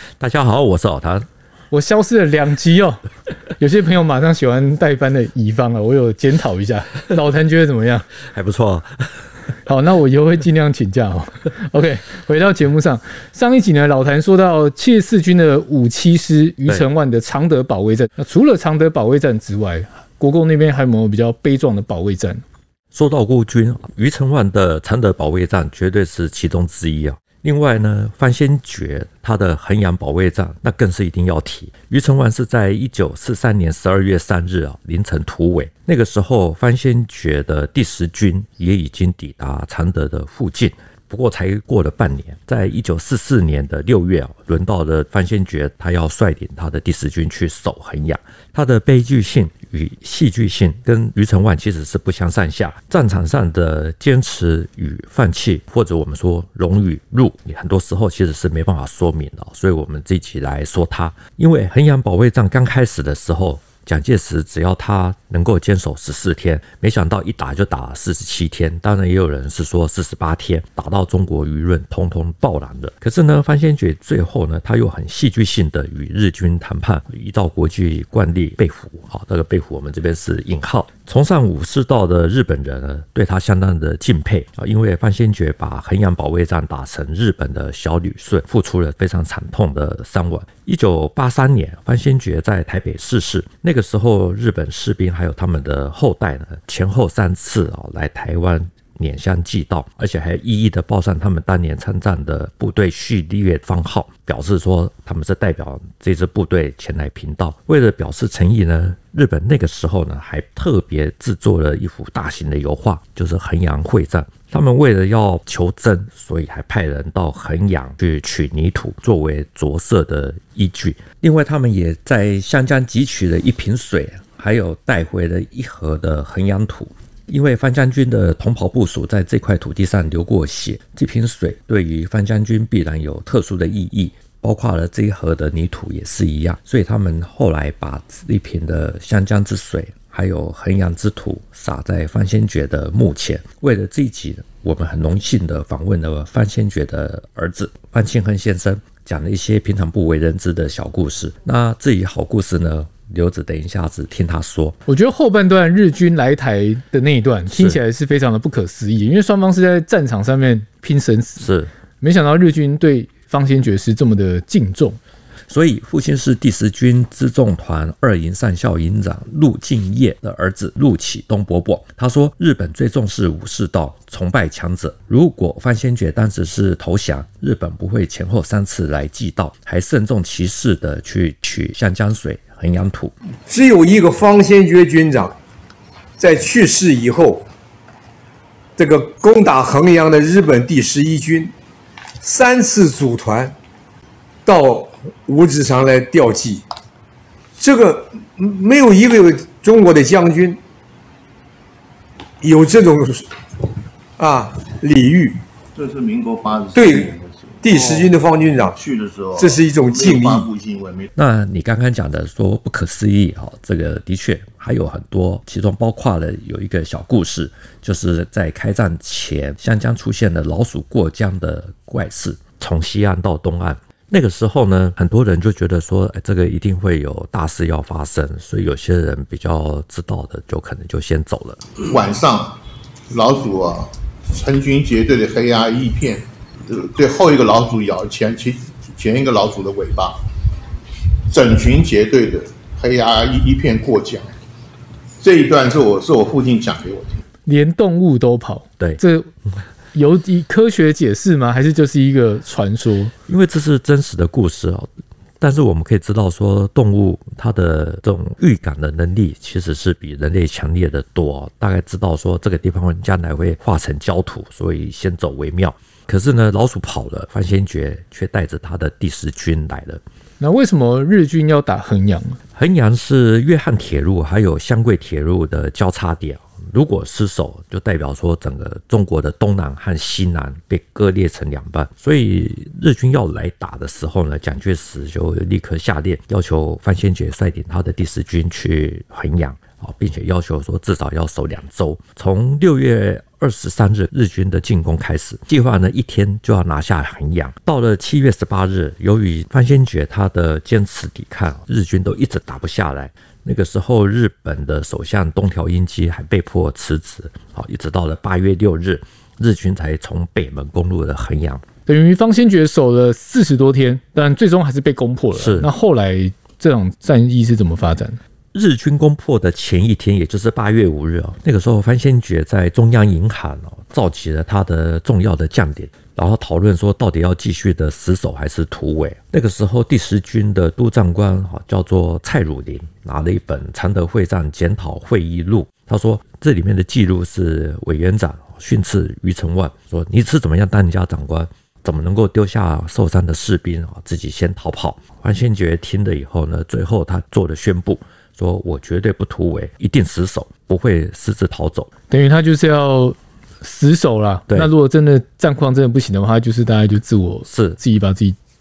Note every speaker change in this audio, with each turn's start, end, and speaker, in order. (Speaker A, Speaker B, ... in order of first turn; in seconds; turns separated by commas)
Speaker A: 0.2-1.3, Speaker B: 1.7-3.0, Speaker B: 3.6-8.1, Speaker A: 8.2-9.1, Speaker B: 9.7-22.4, Speaker A: 22.9-154.8, Speaker B: 154.9-165.0, Speaker A: 157.5-157.8, Speaker A: 161.4-161.7, Speaker A: 165.5-183.1, Speaker C: 183.5-185.4, Speaker C: 186.2-187.5, Speaker C: 188.8-191.5, Speaker C: 192.2-193.6, Speaker C: 194.4-196.6, Speaker C: 197.6-200.6, Speaker C: 202.4-203.3, Speaker C: 204.2-205.4, Speaker D: 205.8-208.1, Speaker C: 206.7-208.8, Speaker D: 208.6-211.1, Speaker C: 209.4-210.5, Speaker A: 211.2-231.7, Speaker D: 231.8-240.3, Speaker D: 241.3-244.3, Speaker D: 245.2-247.2, Speaker B: 247.5-249.3, Speaker B: 249.9-253.1, Speaker A: 253.3-270.0, Speaker B: 270.4-272.4, Speaker A: 272.6-311.6, Speaker B: 311.9-318.2, Speaker A: 315.3-315.7, Speaker A: 318.5-351.9, Speaker B: 352.1-358.4, Speaker A: 357.5-357.8